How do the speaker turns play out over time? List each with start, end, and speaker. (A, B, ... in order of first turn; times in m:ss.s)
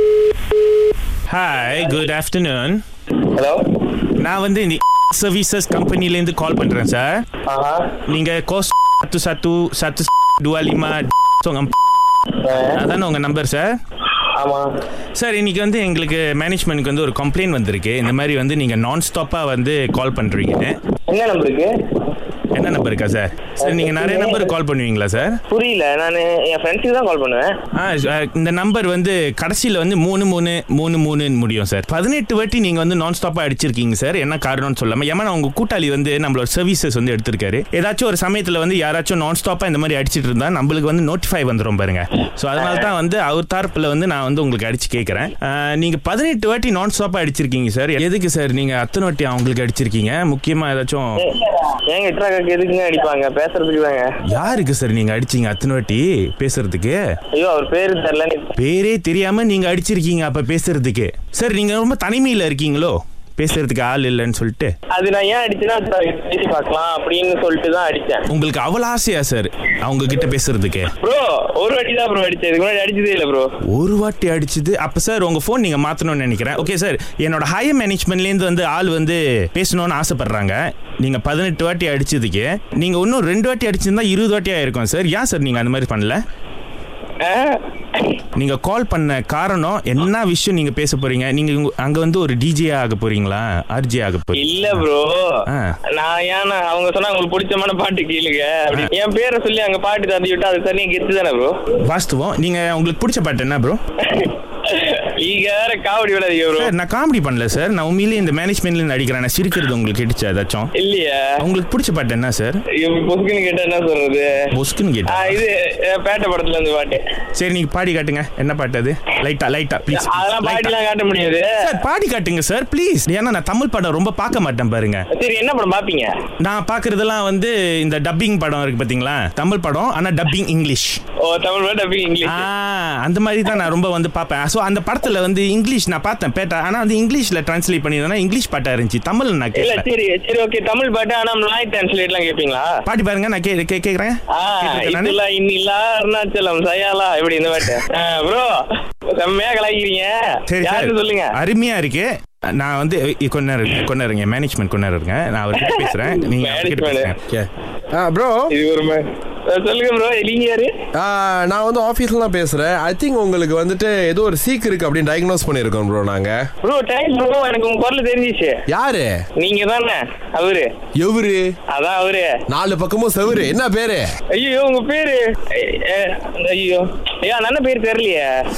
0:01.3-0:02.8 A
0:03.3-0:04.0 B
0:04.2-0:07.2 A
0:07.5-0:08.0 B
0:08.1-0:11.7 A
0:12.4-0:12.8 B
0:12.5-0:13.7 A
0:14.3-0:14.6 B
0:15.2-0:20.8 A
0:21.1-0:22.0 B
0:22.5-0:25.4 A
0:23.6-0:24.5 B
0:25.5-0:27.5 B
0:27.8-0:51.2 A
0:42.6-0:42.9 B
0:51.2-0:54.1 B
0:54.3-0:57.0 A
0:57.3-0:58.5 B
0:58.6-1:04.7 A
1:04.9-1:08.2 B
1:08.3-1:10.9 A
1:11.0-1:13.5 B
1:13.7-1:26.2 A
1:27.2-1:28.2 B
1:28.4-1:34.8 A
1:34.3-1:35.4 B
1:35.5-1:35.8 A
1:36.0-1:41.5 B
1:41.8-1:43.8 A
1:44.0-1:46.7 B
1:46.6-1:50.7 A
1:50.8-1:51.3 B
1:51.4-1:52.6 A
1:52.7-1:54.3 B
1:54.5-1:55.4 A
1:55.1-1:57.0 B
1:57.3-2:00.8 A
1:59.9-2:01.5 B
2:01.6-2:05.0 A
2:05.1-2:06.1 B
2:06.4-2:11.0 A
2:11.2-2:12.4 B
2:12.2-2:19.8 A
2:19.5-2:22.7 B
2:22.8-2:25.2 A
2:24.3-2:28.6 B
2:29.1-2:31.3 B
2:30.5-2:37.2 A
2:35.6-2:37.1 B
2:37.3-2:38.5 C
2:38.5-2:40.7 B
2:40.9-2:46.4 C
2:46.6-2:48.6 B
2:48.7-2:49.2 C
2:49.4-2:50.7 B
2:51.0-2:51.5 C
2:51.7-2:52.4 B
2:52.5-2:54.1 C
2:54.3-2:58.3 B